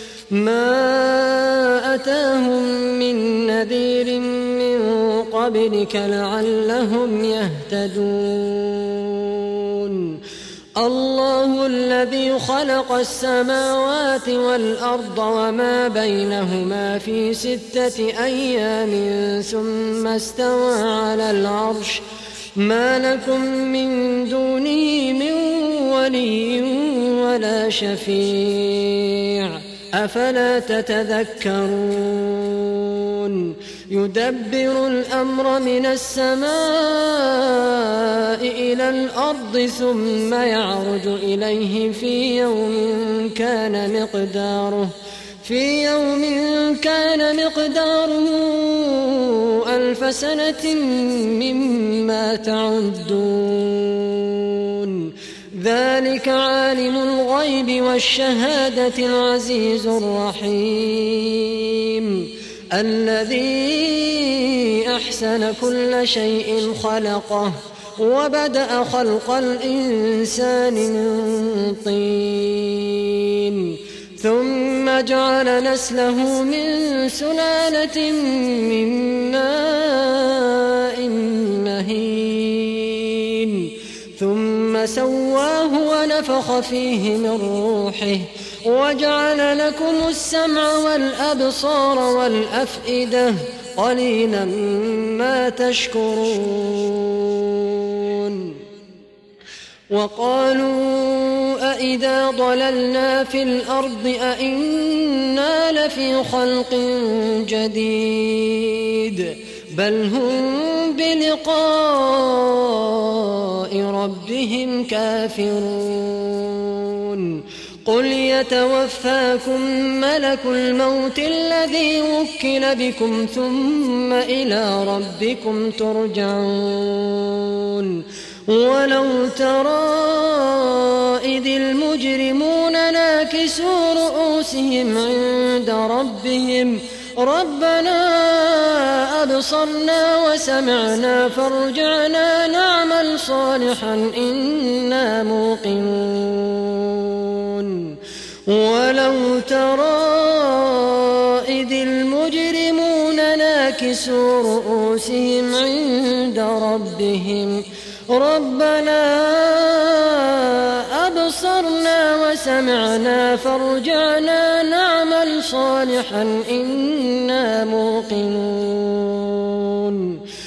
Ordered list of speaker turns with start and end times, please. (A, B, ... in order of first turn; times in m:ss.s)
0:00.3-0:10.2 A
0:10.8-0:22.0 A
0:22.6-1:38.6 A
1:39.9-2:50.2 A